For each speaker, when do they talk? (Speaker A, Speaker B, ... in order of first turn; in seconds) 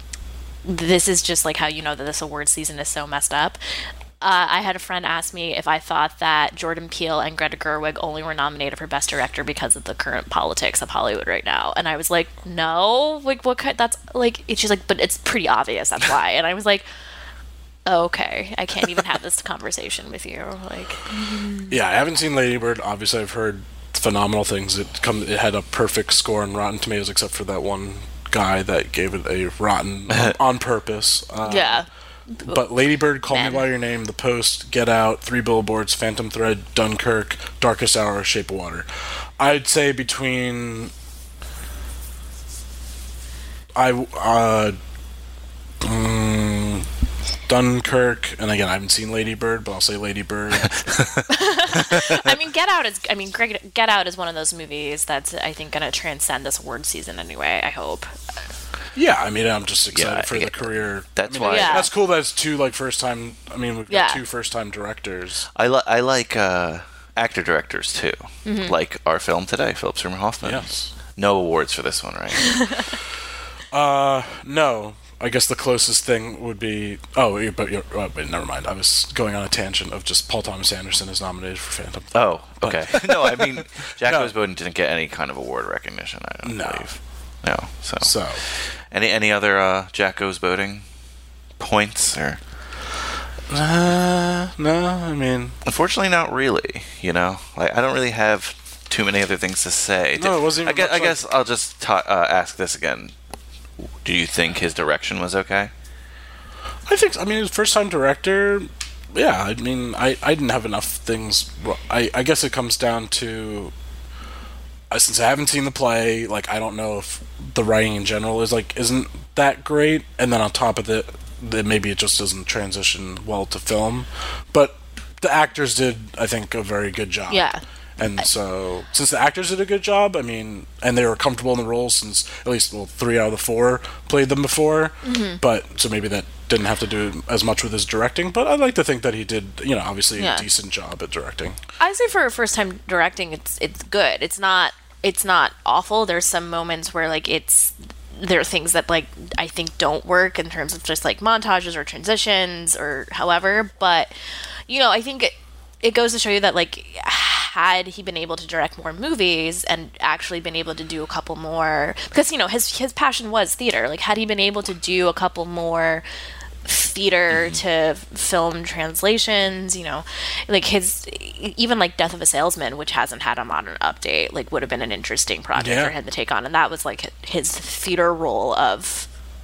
Speaker A: 0.7-3.6, 4.2-16.9, 17.9-21.8, 31.4-32.6, 33.3-33.6, 51.3-58.1, 61.4-61.9, 63.9-64.2, 68.4-68.7, 127.3-127.6, 135.0-135.4, 140.2-140.4, 141.8-154.1, 154.7-166.1, 166.7-179.1
Speaker B: 21.7-31.9, 32.5-38.9, 39.4-40.9, 43.8-44.8, 45.8-46.9, 47.5-51.0, 58.9-65.5, 70.4-70.9, 73.7-84.3, 86.4-86.9, 88.0-88.4, 93.5-95.5, 100.2-101.2, 106.9-113.7, 114.9-141.6, 175.6-175.9
Speaker C: 30.1-30.4, 59.9-61.9, 65.5-70.7, 71.2-72.7, 82.1-90.8, 91.6-92.4, 95.7-103.1, 104.0-105.7, 167.3-167.6